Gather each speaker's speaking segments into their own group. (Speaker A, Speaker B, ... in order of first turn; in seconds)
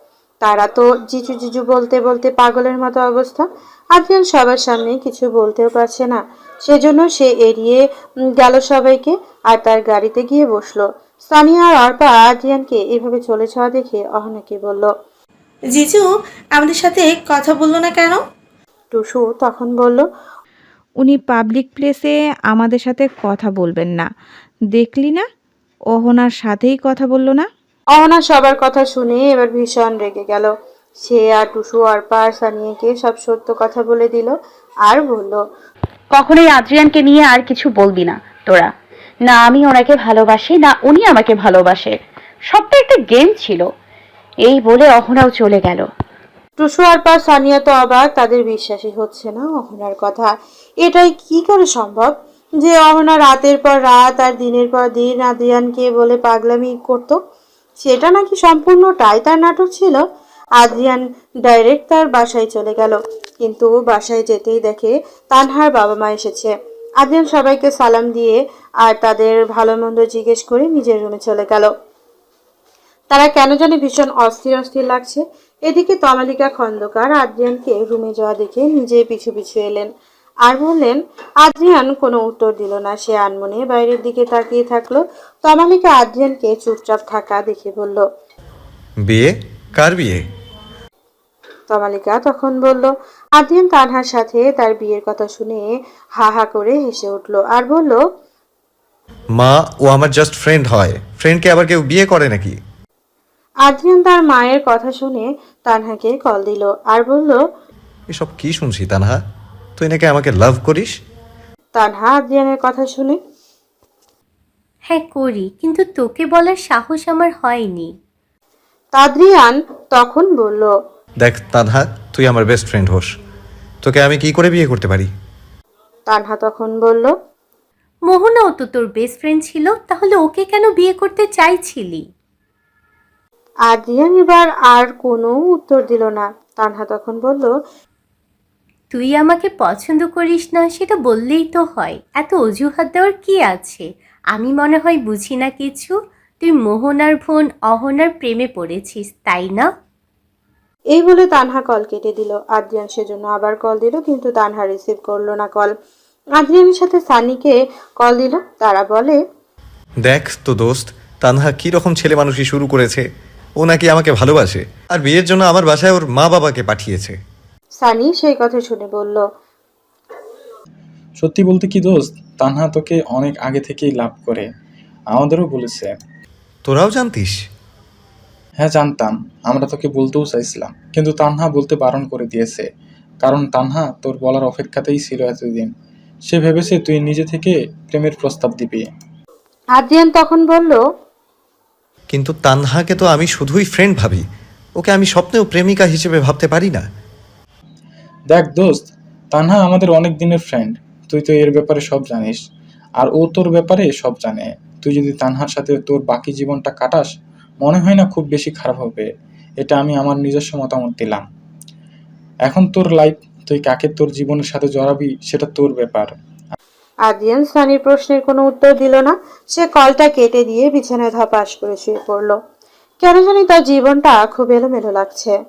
Speaker A: 0.4-7.8, 8.4-14.9, 18.9-20.1, 27.9-30.5, 31.0-34.4, 34.9-35.4, 46.6-50.3, 50.8-57.2, 57.8-60.0, 60.6-71.7, 73.1-79.9, 80.5-88.0, 91.7-98.0, 103.7-107.4, 111.8-113.2, 119.0-120.7, 126.1-127.1, 133.7-137.5, 150.9-155.7, 156.4-159.2, 167.8-169.2, 189.8-190.8, 217.1-222.4, 223.0-225.3
Speaker B: 15.7-18.2
Speaker C: 21.0-24.1, 24.7-25.2, 25.9-27.5
Speaker D: 36.1-38.7, 39.3-41.9, 42.5-43.7, 44.5-45.8
Speaker E: 89.1-90.2, 99.4-102.6, 108.1-109.2, 109.8-110.9, 121.2-123.1, 123.8-125.1, 160.1-163.1, 163.6-167.2, 176.7-177.4, 192.1-194.2, 194.8-196.8
Speaker F: 114.9-117.9, 128.1-132.1, 138.9-149.7
Speaker G: 171.2-174.5, 175.1-175.9, 178.6-182.7, 183.2-185.7, 186.3-188.9, 198.3-202.4, 203.0-207.1, 207.6-209.1, 209.6-211.2, 212.5-216.1